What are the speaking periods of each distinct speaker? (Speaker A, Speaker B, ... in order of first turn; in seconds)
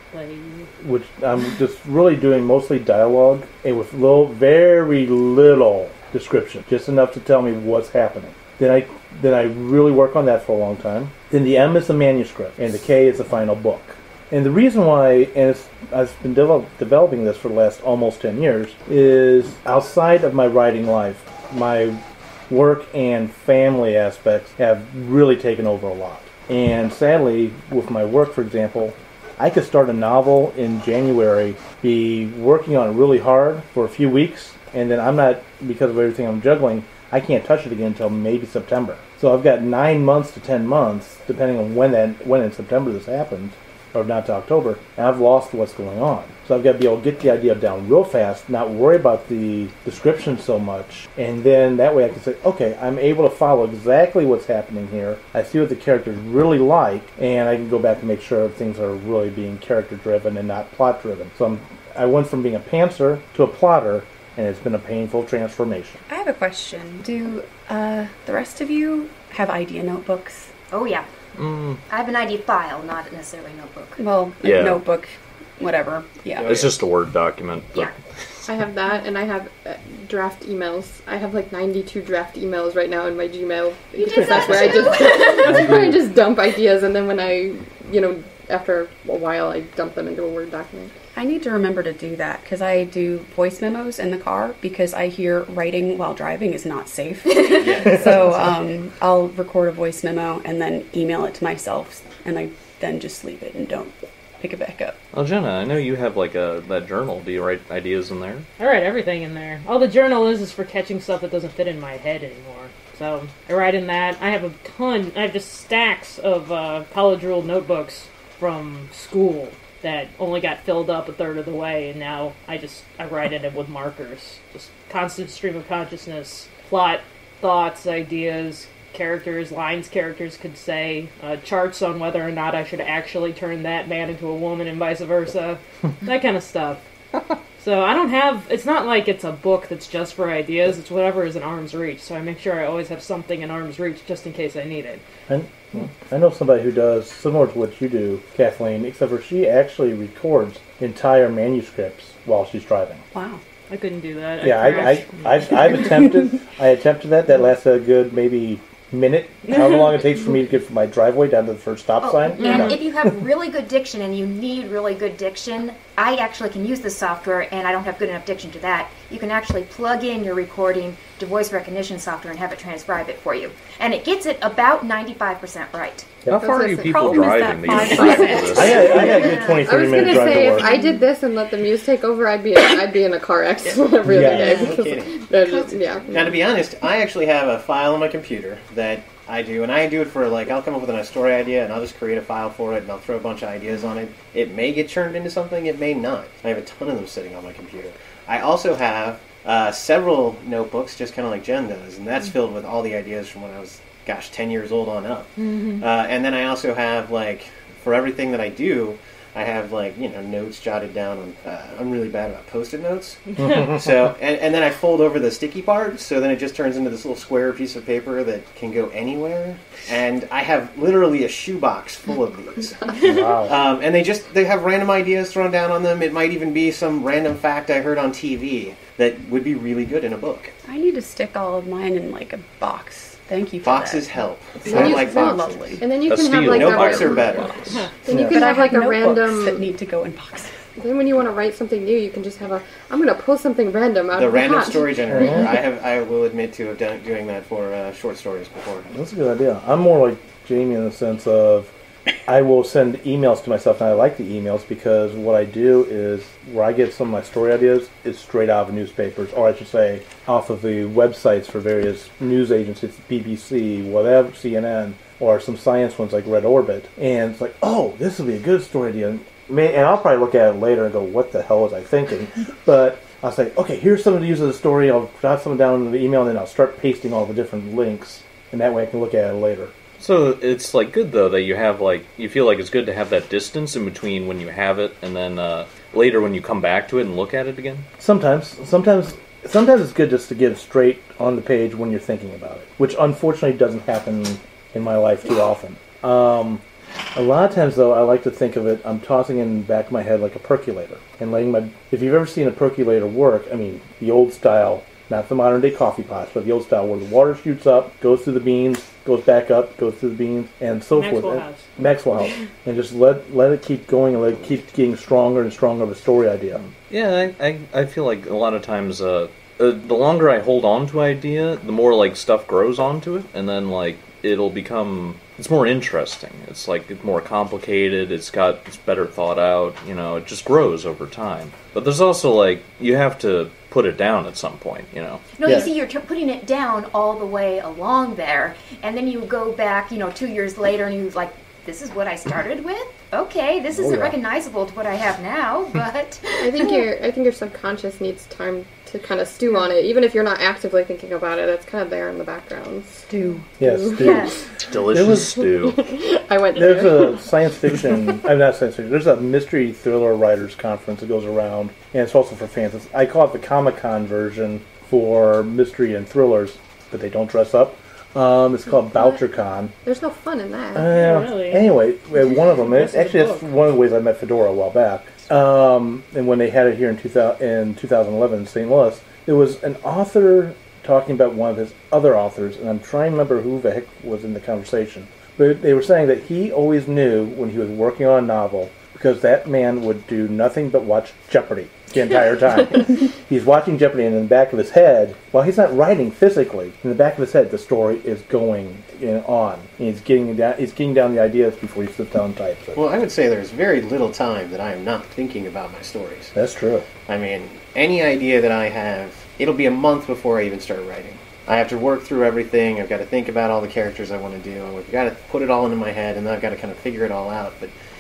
Speaker A: 0.1-0.7, 108.6-136.8, 137.6-145.0, 153.7-155.7, 159.5-160.0, 162.4-162.9, 205.4-205.8, 213.4-213.7, 310.9-311.6, 370.8-371.7, 372.3-373.4
Speaker B: 0.8-66.0, 85.5-86.0, 145.3-153.0, 154.4-163.1, 178.5-180.7, 184.0-184.6, 213.4-213.8, 223.0-223.5, 238.1-238.4, 245.1-245.4, 248.9-251.7, 252.3-279.7, 288.0-296.6, 297.1-316.6, 343.7-344.1, 353.6-354.3, 354.9-355.4, 356.5-369.7, 370.7-402.8, 406.3-406.9
Speaker C: 66.1-70.5, 74.0-76.7, 91.1-105.0, 153.1-153.4, 176.5-179.2, 230.7-234.0, 234.6-235.8, 238.3-240.6, 353.1-353.5
Speaker D: 70.7-71.1, 71.9-74.0, 84.0-85.6, 162.0-176.1, 179.0-179.7, 180.6-180.9, 184.3-184.8, 185.3-186.2, 335.4-346.8, 354.0-354.4
Speaker E: 71.3-71.8, 74.4-74.8, 76.4-77.9, 105.1-108.5, 176.3-179.0, 236.1-237.6, 280.0-287.9, 316.6-335.3, 354.7-355.8
Speaker F: 78.5-90.9, 176.4-186.5, 234.6-239.7, 240.8-245.4, 346.4-353.1, 353.6-354.3, 355.5-357.3, 369.8-371.0
Speaker G: 97.5-98.4, 184.1-185.2, 186.1-230.5, 233.6-235.7, 236.5-237.7, 244.2-248.9, 402.7-406.3, 407.1-417.7